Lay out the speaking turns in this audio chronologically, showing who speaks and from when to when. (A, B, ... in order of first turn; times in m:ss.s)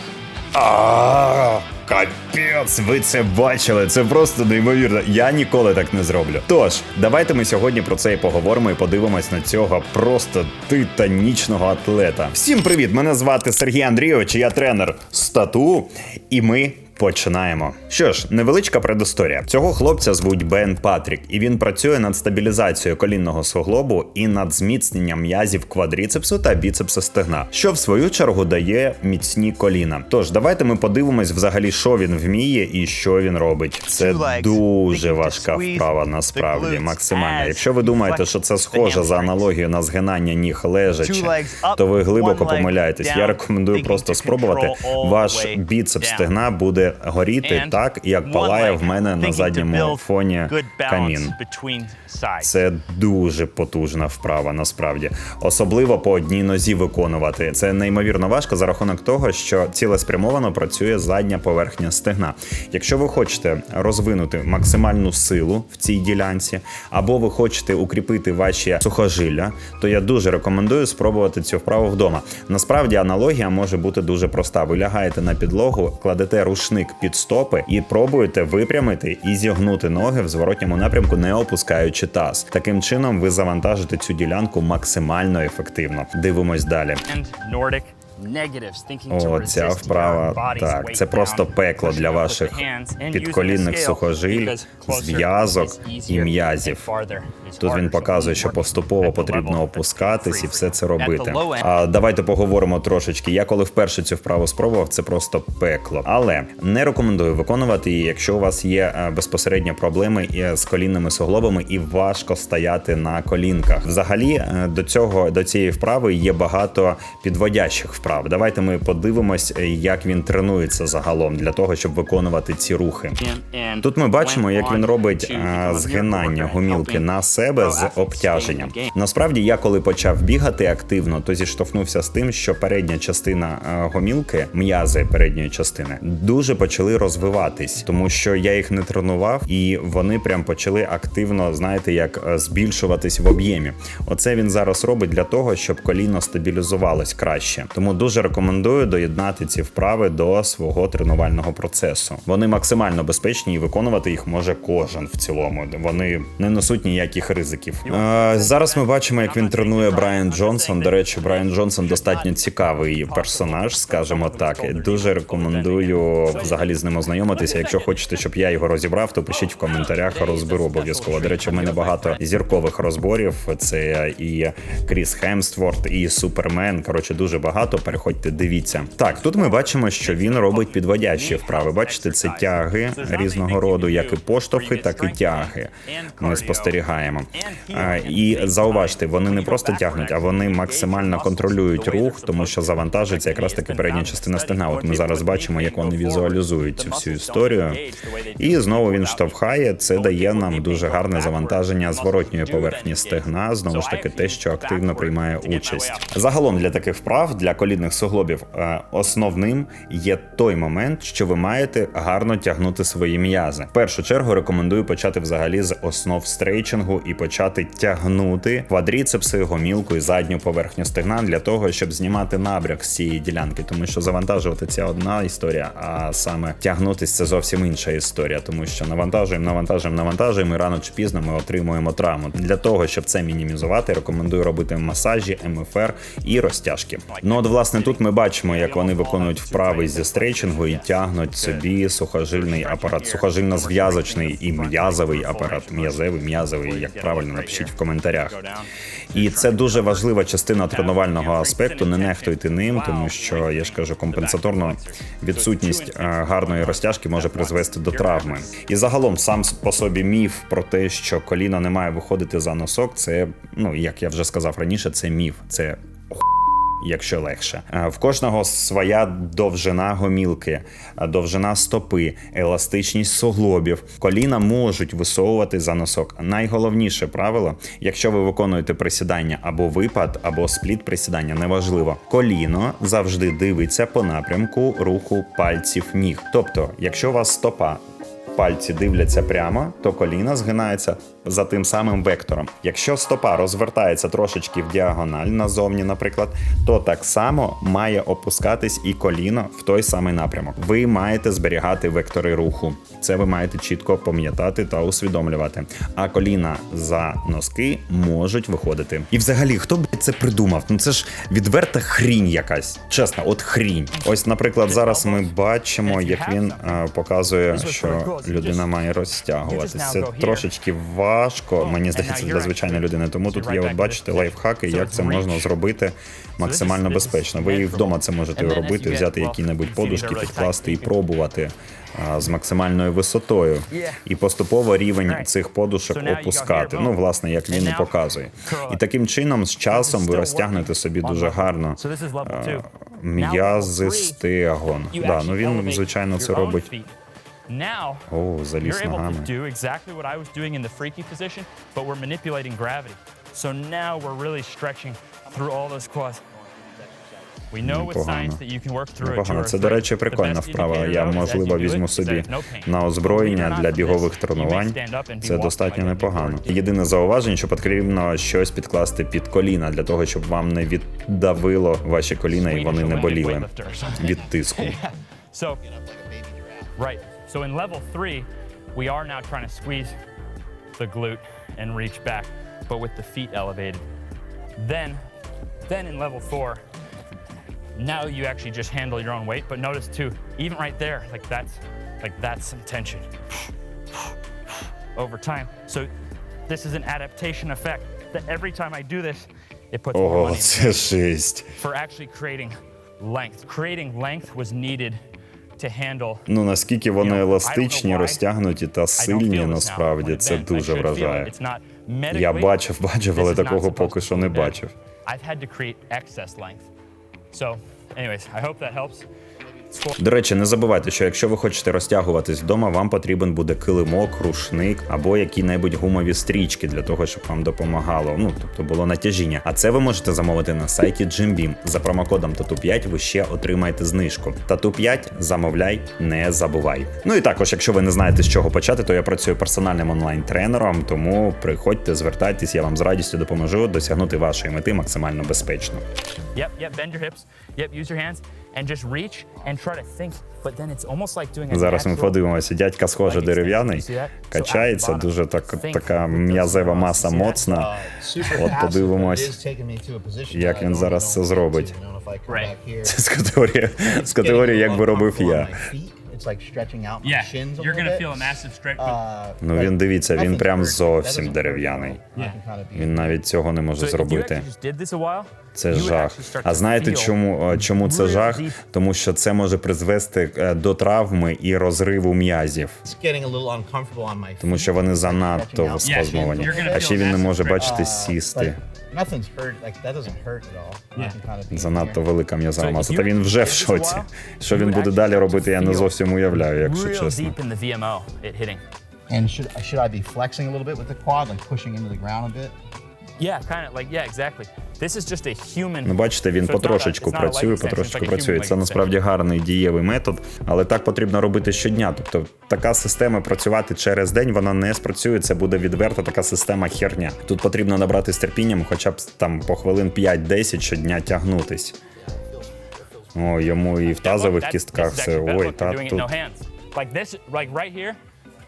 0:00.5-0:51.4 A
0:33.8-0:39.4 B
0:41.0-0:46.3 B
0:47.4-0:52.5 B
0:52.4-1:27.0 A
1:27.1-1:41.7 B
1:29.1-1:36.9 A
1:37.6-2:03.2 A
2:03.2-2:08.9 B
2:03.8-3:17.8 A
2:37.8-2:48.2 B
2:49.3-2:52.2 B
2:59.1-3:06.8 B
3:07.3-3:26.1 B
3:18.4-4:08.4 A
3:57.1-4:01.7 B
4:02.3-4:18.6 B
4:09.1-4:26.2 A
4:26.8-4:47.8 A
4:48.3-5:46.7 A
5:14.6-5:16.8 B
5:17.5-5:18.7 B
5:19.4-5:20.5 B
5:21.6-5:25.5 B
5:26.4-5:31.0 B
5:33.7-5:34.0 B
5:35.9-5:38.8 B
5:39.7-5:44.2 B
5:44.8-5:46.9 B
5:47.5-5:48.1 B
5:48.1-5:49.3 A
5:48.6-5:56.2 B
5:56.6-5:57.0 C
5:57.5-6:06.7 B
5:57.6-5:58.4 A
5:59.0-6:14.8 A
6:12.3-6:15.6 B
6:15.6-6:16.9 C
6:16.8-6:20.0 B
6:20.8-6:23.8 B
6:24.6-6:25.0 B
6:25.6-6:26.6 B
6:27.8-6:34.1 B
6:34.9-6:35.9 B
6:36.5-6:41.0 B
6:39.9-6:41.5 A
6:41.5-6:45.0 B
6:45.6-6:46.2 B
6:46.3-6:51.3 A
6:47.0-6:48.2 B
6:49.0-6:52.6 B
6:52.1-6:54.7 A
6:53.1-6:56.7 B
6:57.3-6:59.1 B
6:59.7-7:00.0 B
7:00.0-7:25.8 A
7:26.3-7:32.2 B
7:31.5-7:39.4 A
7:33.0-7:37.5 B
7:37.4-7:43.0 C
7:40.3-7:41.7 A
7:42.3-7:42.5 B
7:42.8-7:45.6 A
7:43.8-7:53.2 C
7:47.0-7:49.0 B
7:49.4-7:52.0 A
7:52.7-7:54.5 A
7:53.8-7:58.6 B
7:55.5-8:02.8 A
8:02.8-8:07.0 C
8:04.4-8:08.6 A
8:05.8-8:07.8 B
8:07.6-8:12.0 C
8:11.5-8:17.4 A
8:12.6-8:18.6 B
8:19.1-8:22.6 C
8:23.2-8:28.9 B
8:25.8-8:41.8 A
8:43.1-8:46.1 A
8:43.9-8:48.0 B